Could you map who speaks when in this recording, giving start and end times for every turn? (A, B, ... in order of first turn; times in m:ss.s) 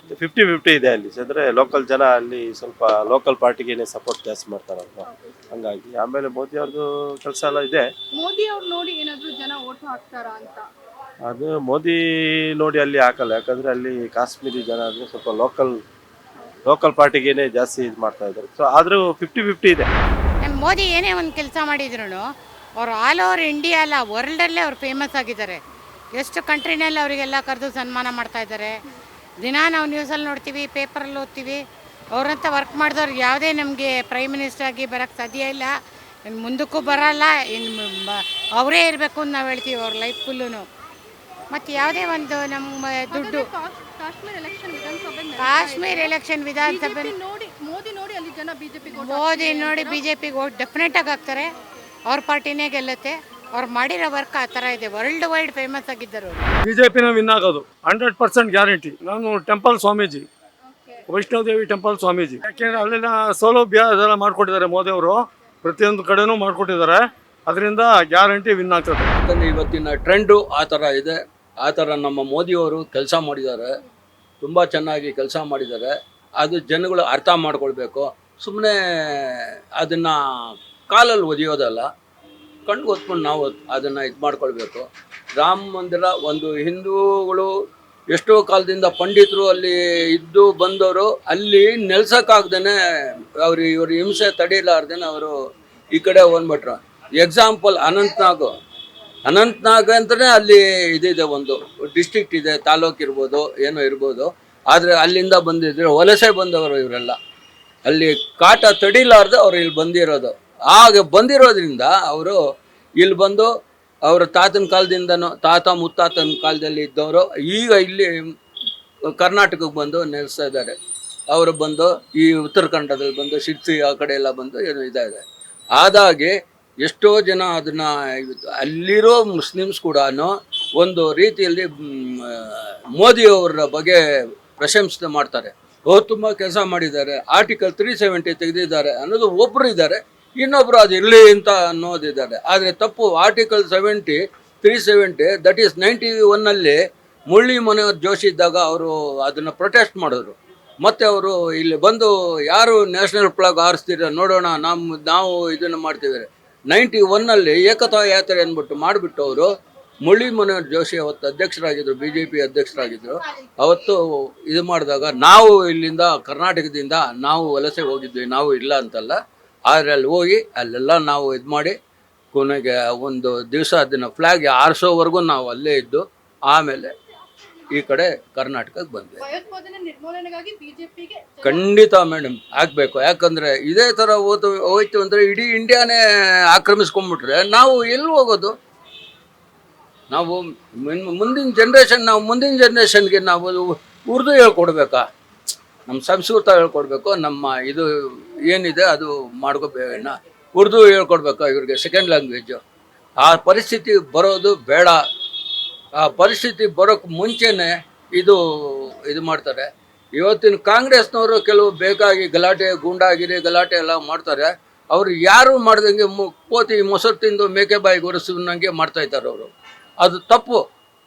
0:00.1-0:07.9 A
0:05.0-0:05.4 B
0:08.2-0:10.6 B
0:11.2-0:15.8 A
0:16.6-0:19.9 A
0:20.4-0:22.2 C
0:22.8-0:25.6 C
0:26.2-0:28.7 C
0:29.4-0:31.6 C
0:32.1-0:35.7 C
0:36.2-0:40.6 C
0:41.5-0:43.5 C
0:43.1-0:50.0 B
0:45.4-0:47.1 C
0:48.9-0:51.5 C
0:51.5-0:51.9 B
0:52.0-0:56.5 C
0:56.7-1:00.3 D
1:00.6-1:01.1 B
1:01.1-1:09.0 D
1:02.4-1:03.0 B
1:09.1-1:13.7 E
1:14.4-1:21.9 E
1:22.6-1:27.5 E
1:28.1-1:35.4 E
1:35.9-1:38.5 E
1:39.2-1:47.2 E
1:47.8-1:52.4 E
1:53.0-1:53.5 E
1:54.0-1:58.1 E
1:59.1-2:00.7 E
2:01.3-2:51.8 E
2:52.3-2:56.9 E
2:57.7-2:59.2 E
2:59.2-3:01.6 B
3:01.4-3:08.5 E
3:10.1-3:15.0 E
3:15.8-3:22.6 E
3:23.2-3:25.0 E
3:26.0-3:40.6 E